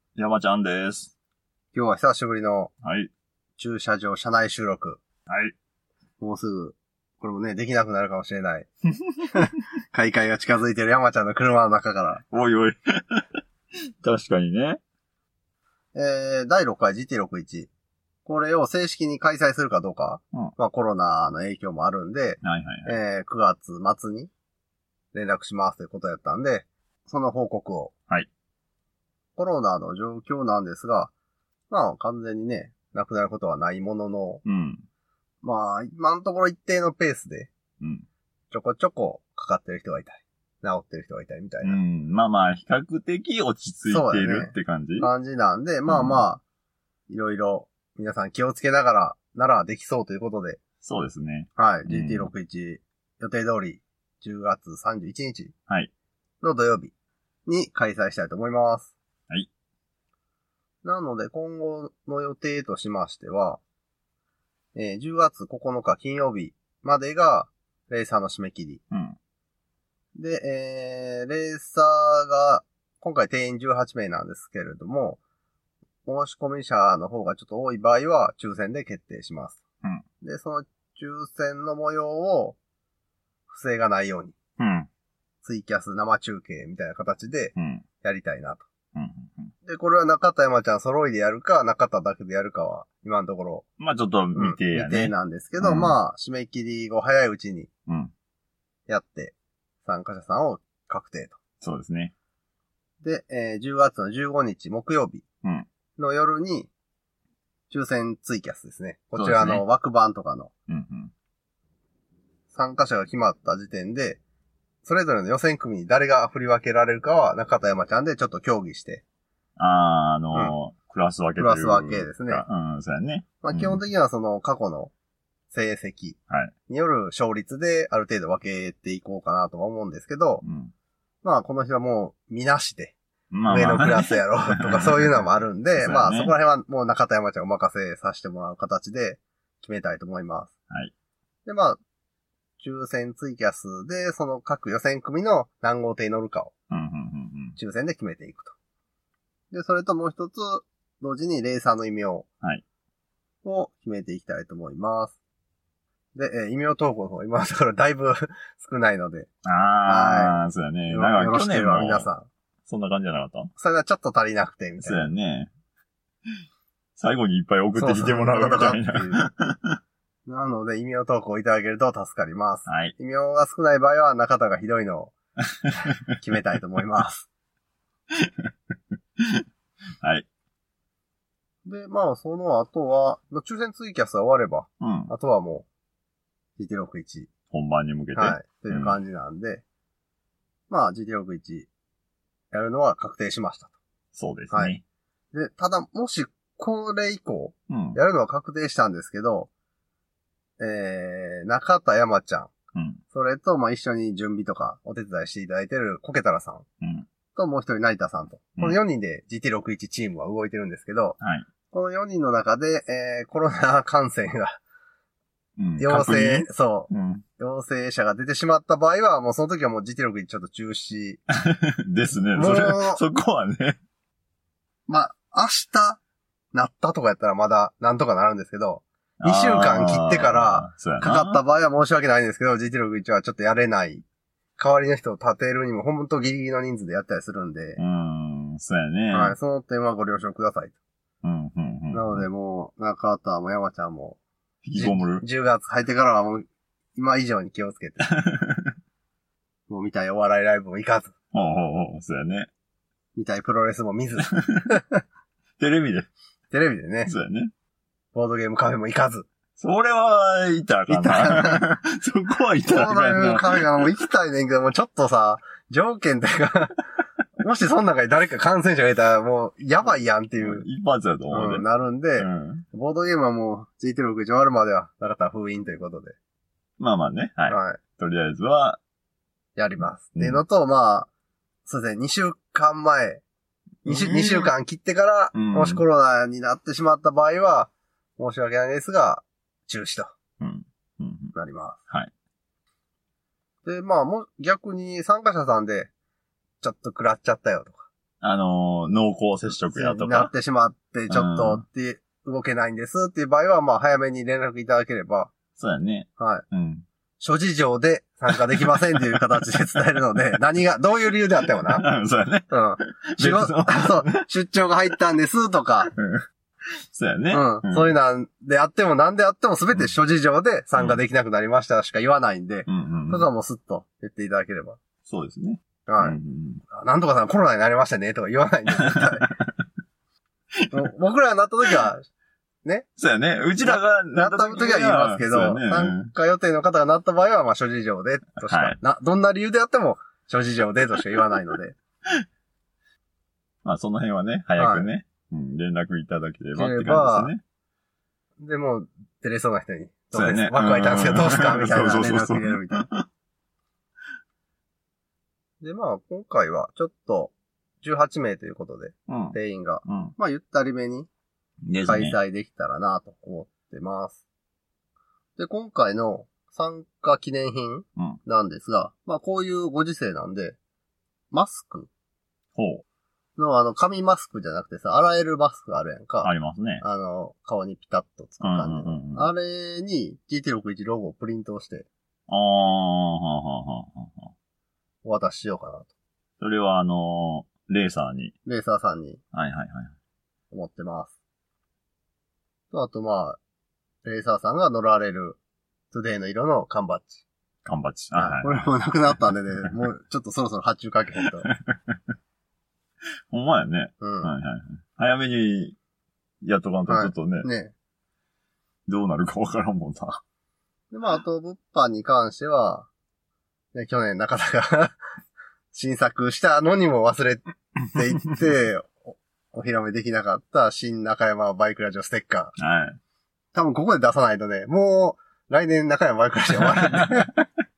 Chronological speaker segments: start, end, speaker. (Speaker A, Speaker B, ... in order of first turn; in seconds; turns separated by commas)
Speaker A: 0.1-1.1, Speaker B: 1.7-2.7, Speaker A: 2.8-3.1, Speaker B: 3.6-5.0, Speaker A: 5.3-5.5, Speaker B: 6.2-8.7, Speaker B: 9.3-12.2, Speaker A: 12.3-13.2, Speaker A: 14.0-14.8, Speaker B: 15.9-17.7, Speaker B: 18.2-24.3, Speaker A: 22.4-23.0, Speaker B: 25.1-27.9, Speaker B: 29.4-31.1, Speaker B: 31.7-34.4, Speaker A: 34.4-34.8, Speaker B: 35.4-37.5, Speaker A: 37.8-38.0, Speaker B: 38.5-41.8, Speaker A: 41.6-45.1, Speaker B: 43.9-46.4, Speaker A: 45.9-46.2, Speaker B: 47.1-50.6, Speaker A: 50.8-52.3, Speaker B: 51.5-55.5, Speaker B: 56.4-56.9, Speaker B: 57.5-58.9, Speaker B: 60.8-63.6, Speaker B: 64.7-68.8, Speaker A: 68.9-69.2, Speaker B: 70.2-75.2, Speaker B: 76.0-79.6, Speaker B: 80.2-82.6, Speaker B: 83.5-84.3, Speaker A: 84.6-84.9, Speaker B: 85.4-88.7, Speaker A: 87.5-87.8, Speaker A: 88.9-89.5, Speaker B: 89.6-93.6, Speaker A: 93.8-96.0, Speaker B: 94.3-97.7, Speaker A: 97.9-98.1, Speaker B: 98.9-101.4, Speaker A: 101.6-102.1, Speaker B: 103.0-105.2, Speaker B: 106.0-106.7, Speaker B: 107.7-110.5, Speaker A: 109.2-109.6, Speaker A: 110.7-111.1, Speaker B: 112.5-114.2, Speaker B: 114.8-119.0, Speaker A: 119.6-123.8, Speaker B: 121.4-122.4, Speaker B: 123.4-124.9, Speaker B: 125.5-126.2, Speaker B: 126.7-130.4, Speaker A: 130.4-130.7, Speaker B: 131.2-132.9, Speaker A: 133.3-136.3, Speaker B: 133.5-140.5, Speaker B: 141.4-141.8, Speaker B: 142.6-146.5, Speaker A: 146.7-147.6, Speaker B: 147.6-148.5, Speaker B: 149.5-152.2, Speaker B: 153.4-155.2, Speaker B: 156.1-159.3, Speaker A: 159.4-162.1, Speaker B: 159.8-162.3, Speaker A: 162.7-163.5, Speaker B: 163.6-165.1, Speaker A: 164.8-165.5, Speaker A: 167.0-169.8, Speaker B: 167.7-169.2, Speaker B: 170.2-175.1, Speaker A: 172.7-172.9, Speaker B: 175.8-177.3, Speaker B: 181.6-185.7, Speaker A: 184.8-185.1, Speaker B: 186.6-187.3, Speaker A: 187.5-189.0, Speaker B: 188.1-189.6, Speaker B: 190.7-191.7, Speaker B: 192.5-193.7, Speaker A: 194.1-194.8, Speaker B: 195.3-199.5, Speaker A: 197.7-198.0, Speaker B: 200.6-202.5, Speaker A: 202.7-203.0, Speaker B: 203.1-206.6, Speaker A: 206.8-207.1, Speaker B: 207.3-211.2, Speaker A: 211.2-211.5, Speaker B: 211.7-214.6, Speaker A: 215.6-217.2, Speaker B: 215.8-221.2, Speaker A: 221.4-223.8, Speaker B: 222.3-223.0, Speaker B: 224.9-226.0, Speaker B: 226.5-234.0, Speaker A: 229.2-231.4, Speaker B: 234.6-237.8, Speaker A: 237.8-239.4, Speaker B: 239.1-240.8, Speaker A: 241.2-242.2, Speaker B: 241.9-244.2, Speaker A: 244.6-245.2, Speaker B: 244.8-248.1, Speaker A: 248.2-248.8, Speaker B: 249.7-251.1, Speaker A: 251.3-252.5, Speaker B: 253.1-255.0, Speaker A: 255.6-256.1, Speaker B: 256.5-257.1, Speaker A: 257.1-257.5, Speaker B: 258.1-259.3, Speaker A: 259.6-263.9, Speaker B: 260.9-261.6, Speaker B: 262.6-266.8, Speaker B: 267.4-270.6, Speaker A: 270.4-271.6, Speaker B: 271.3-276.1, Speaker A: 272.2-272.6, Speaker A: 276.8-278.8, Speaker B: 277.5-277.8, Speaker B: 279.6-281.1, Speaker A: 280.1-280.4, Speaker B: 281.6-283.2, Speaker A: 283.8-284.5, Speaker B: 283.9-290.1, Speaker A: 285.3-285.8, Speaker A: 290.4-291.3, Speaker B: 291.3-291.8, Speaker B: 293.6-295.9, Speaker B: 296.6-297.9, Speaker A: 298.2-300.3, Speaker B: 299.7-305.3, Speaker A: 301.1-301.6, Speaker A: 305.6-306.8, Speaker B: 306.2-306.4, Speaker B: 307.2-311.8, Speaker A: 311.6-314.2, Speaker B: 312.5-315.9, Speaker A: 315.9-316.2, Speaker A: 316.9-317.9, Speaker B: 317.3-324.8, Speaker A: 322.7-323.3, Speaker A: 325.1-326.6, Speaker B: 325.9-326.2, Speaker B: 326.7-329.3, Speaker A: 328.9-329.5, Speaker B: 330.7-332.1, Speaker A: 333.0-336.1, Speaker B: 333.6-341.8, Speaker A: 338.4-338.8, Speaker A: 343.6-347.4, Speaker B: 344.6-344.9, Speaker B: 346.6-347.3, Speaker B: 348.4-352.9, Speaker A: 350.1-353.0, Speaker B: 355.6-361.1, Speaker A: 359.1-360.1, Speaker A: 361.6-362.2, Speaker B: 361.9-364.2, Speaker B: 365.4-370.6, Speaker B: 371.3-371.9, Speaker A: 372.5-372.8, Speaker B: 373.4-376.3, Speaker A: 376.2-376.8, Speaker B: 376.8-381.9, Speaker A: 378.4-379.3, Speaker A: 382.3-384.3, Speaker B: 385.0-385.9, Speaker A: 386.4-388.3, Speaker B: 388.4-389.2, Speaker A: 389.3-389.9, Speaker B: 390.5-391.1, Speaker B: 392.7-393.4, Speaker B: 394.0-395.4, Speaker B: 395.9-397.2, Speaker A: 397.6-398.7, Speaker B: 398.1-401.5, Speaker A: 401.4-402.0, Speaker A: 403.3-405.8, Speaker B: 404.0-404.3, Speaker A: 406.4-407.5, Speaker B: 406.9-407.7, Speaker A: 408.9-410.2, Speaker B: 410.9-412.9, Speaker B: 413.7-414.9, Speaker B: 415.7-422.5, Speaker A: 422.6-423.0, Speaker B: 423.5-427.3, Speaker A: 426.8-427.4